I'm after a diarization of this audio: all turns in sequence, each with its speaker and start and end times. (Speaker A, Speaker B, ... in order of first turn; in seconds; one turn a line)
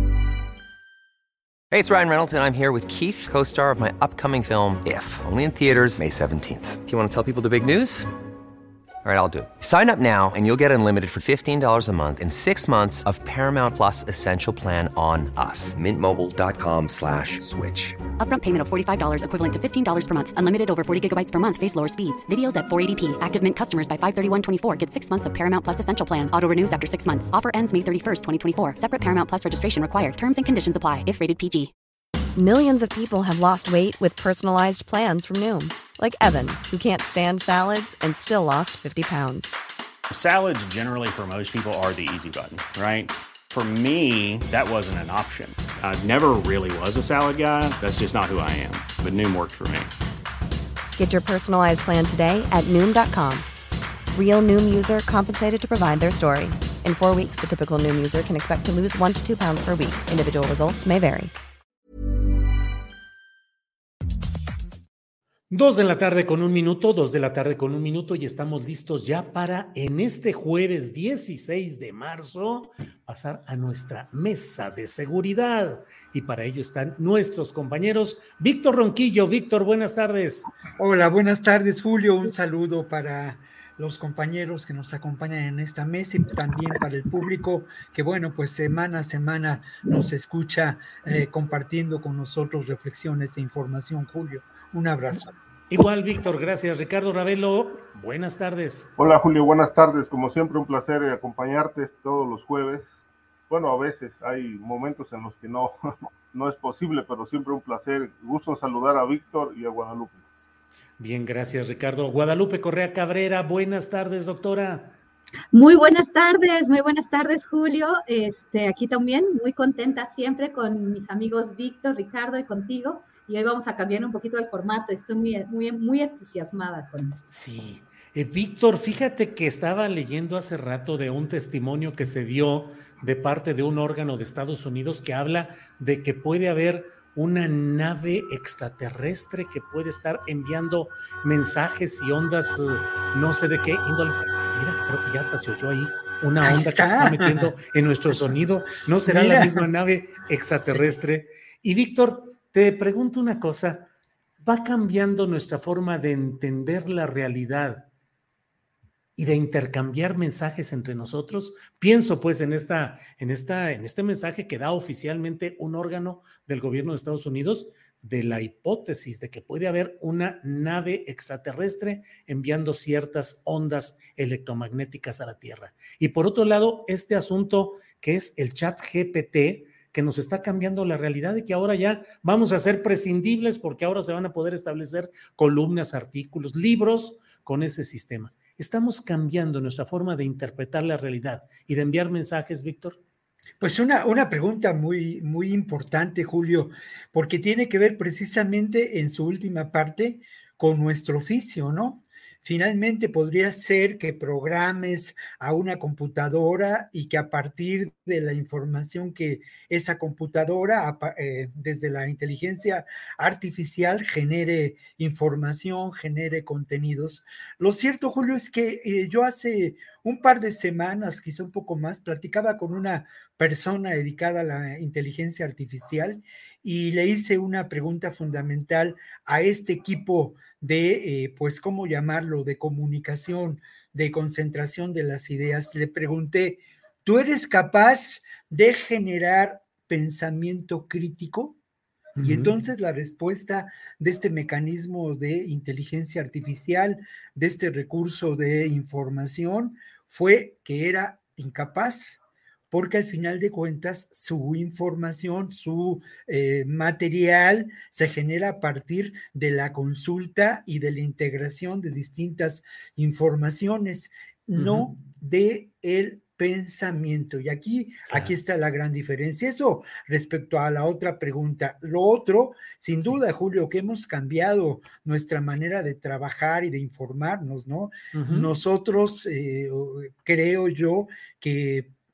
Speaker A: 1.7-8.1
Speaker A: 9.0-18.0
Speaker B: 18.2-31.7
Speaker C: 32.4-39.5
Speaker D: 40.1-49.9
Speaker C: 51.0-53.5
Speaker C: 54.1-61.3
Speaker E: 65.5-80.5
Speaker F: 80.8-95.3
Speaker E: 95.1-98.9
Speaker G: 99.0-102.9
Speaker G: 103.5-110.2
Speaker E: 111.0-115.0
Speaker H: 115.5-127.2
Speaker E: 127.3-153.9
Speaker F: 146.4-147.5
Speaker F: 149.0-149.7
Speaker F: 150.6-150.9
Speaker E: 154.4-157.9
Speaker E: 159.2-193.0
Speaker F: 193.6-241.6
Speaker E: 242.2-242.5
Speaker F: 242.2-252.2
Speaker F: 252.7-281.9
Speaker E: 264.6-264.9
Speaker E: 278.1-278.5